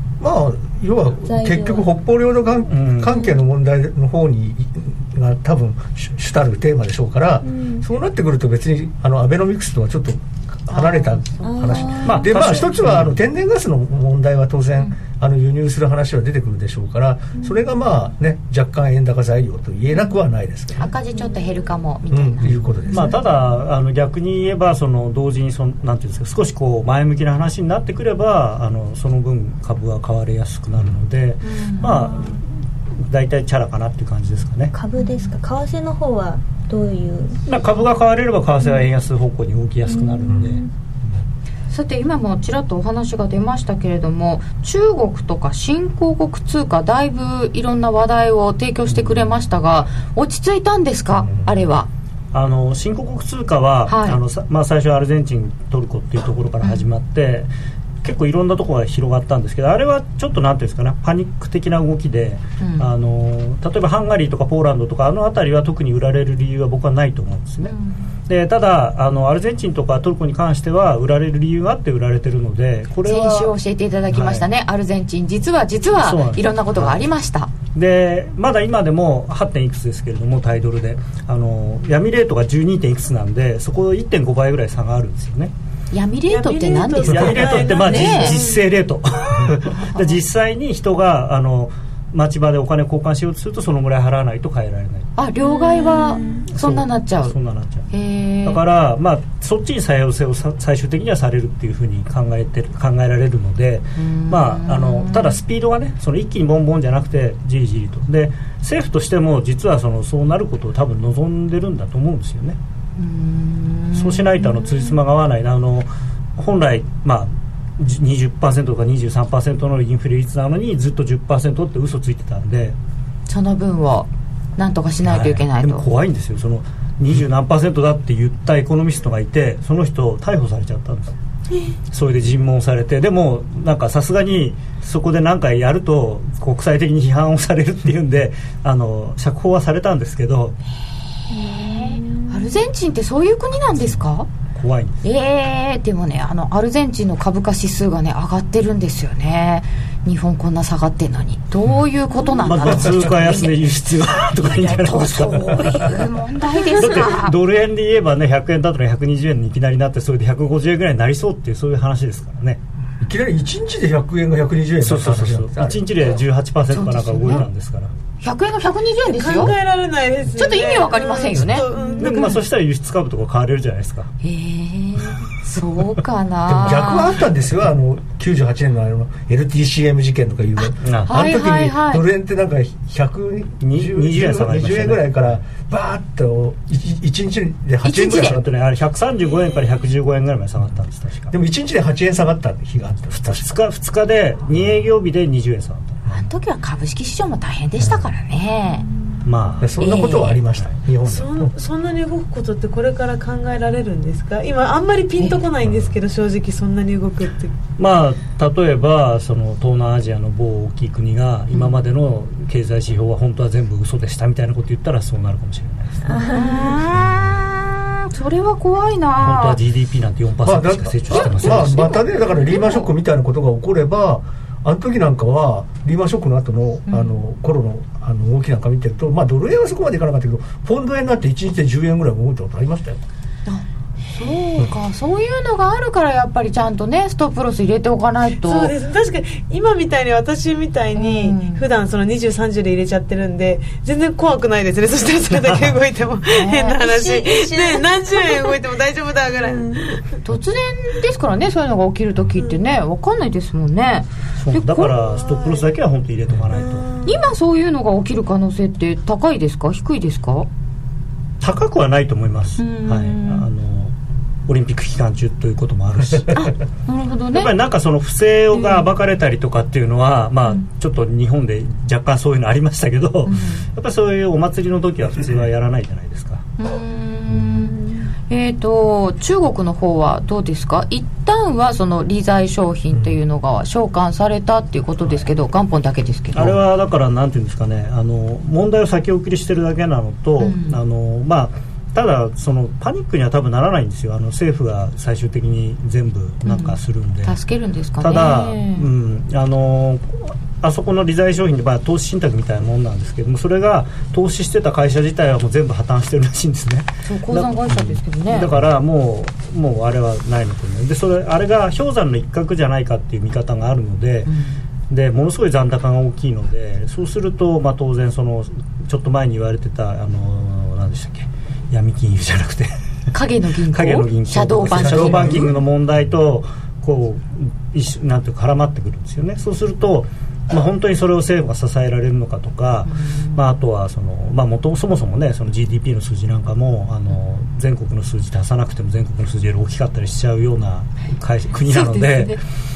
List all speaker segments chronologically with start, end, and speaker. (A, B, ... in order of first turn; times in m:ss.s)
0:00.2-0:20.9 A
0:01.2-0:01.9 B
0:02.7-0:03.2 C
0:07.4-0:07.8 B
0:10.7-0:12.2 D
0:11.4-0:12.4 B
0:12.0-0:13.2 C
0:17.4-0:17.7 B
0:20.8-0:22.6 D
0:21.1-0:21.7 B
0:22.1-0:23.2 A
0:22.6-0:23.5 B
0:22.9-0:32.4 C
0:31.4-0:32.2 D
0:33.0-0:34.7 C
0:34.7-0:37.4 B
0:35.0-0:35.3 D
0:37.5-0:40.6 C
0:39.8-0:40.7 B
0:41.7-0:51.9 D
0:48.9-0:49.4 C
0:51.2-0:51.6 A
0:52.3-0:57.5 C
0:53.9-0:54.2 D
0:58.0-1:07.7 C
1:02.6-1:02.9 D
1:07.6-1:08.1 D
1:08.3-1:13.5 C
1:13.0-1:17.5 D
1:14.1-1:14.5 C
1:15.9-1:17.0 C
1:17.7-1:25.5 C
1:25.9-1:28.4 D
1:26.3-1:28.6 E
1:27.1-1:35.1 C
1:29.7-1:30.2 D
1:35.2-1:37.3 D
1:35.7-1:36.4 B
1:36.5-1:37.9 C
1:37.9-1:38.6 D
1:38.4-1:52.6 C
1:44.0-1:45.4 D
1:53.0-1:55.0 D
1:53.9-2:02.8 C
2:03.3-2:05.8 D
2:05.0-2:11.1 C
2:11.9-2:20.6 C
2:21.2-2:24.3 D
2:21.3-2:22.5 B
2:24.5-2:25.0 C
2:25.0-2:33.6 D
2:32.4-2:36.0 C
2:34.4-2:37.4 D
2:36.7-2:42.6 C
2:43.0-2:45.9 A
2:44.8-2:47.9 C
2:46.7-2:47.4 D
2:48.2-2:49.5 D
2:49.0-2:52.4 E
2:50.3-2:51.7 D
2:51.7-2:52.2 B
2:52.0-2:54.1 C
2:54.2-2:57.2 D
2:56.5-3:08.5 A
3:00.8-3:01.1 C
3:01.1-3:02.0 D
3:03.6-3:05.4 C
3:07.8-3:08.4 D
3:08.2-3:11.3 C
3:11.3-3:13.5 A
3:13.1-3:15.9 C
3:16.1-3:18.8 D
3:19.2-3:19.8 C
3:19.6-3:21.5 A
3:19.8-3:20.4 D
3:21.1-3:27.6 E
3:27.8-3:36.2 C
3:36.1-3:36.8 B
3:36.3-3:39.6 D
3:37.0-3:37.3 A
3:39.2-3:41.8 C
3:40.4-3:53.0 A
3:41.1-3:42.8 D
3:41.7-3:42.7 B
3:46.9-3:47.2 D
3:53.4-3:58.7 D
3:58.4-4:10.0 E
4:01.0-4:01.6 D
4:05.3-4:05.8 C
4:06.3-4:06.8 D
4:06.8-4:08.3 B
4:10.2-4:14.9 D
4:14.4-4:16.9 C
4:15.1-4:15.6 E
4:16.6-4:17.1 E
4:17.0-4:20.5 D
4:21.4-4:23.9 C
4:22.6-4:23.5 D
4:24.5-4:26.4 C
4:26.3-4:27.5 D
4:27.3-4:36.4 C
4:28.5-4:28.8 D
4:33.2-4:33.6 D
4:36.6-4:37.8 D
4:37.6-4:38.1 B
4:38.3-4:46.6 D
4:46.3-4:57.4 C
4:50.4-4:50.8 D
4:56.4-4:58.9 D
4:58.0-5:14.3 C
5:07.1-5:08.5 D
5:14.2-5:14.6 D
5:14.9-5:22.7 C
5:23.1-5:25.5 D
5:23.7-5:42.4 C
5:24.7-5:25.6 A
5:32.8-5:33.4 D
5:41.7-5:42.4 D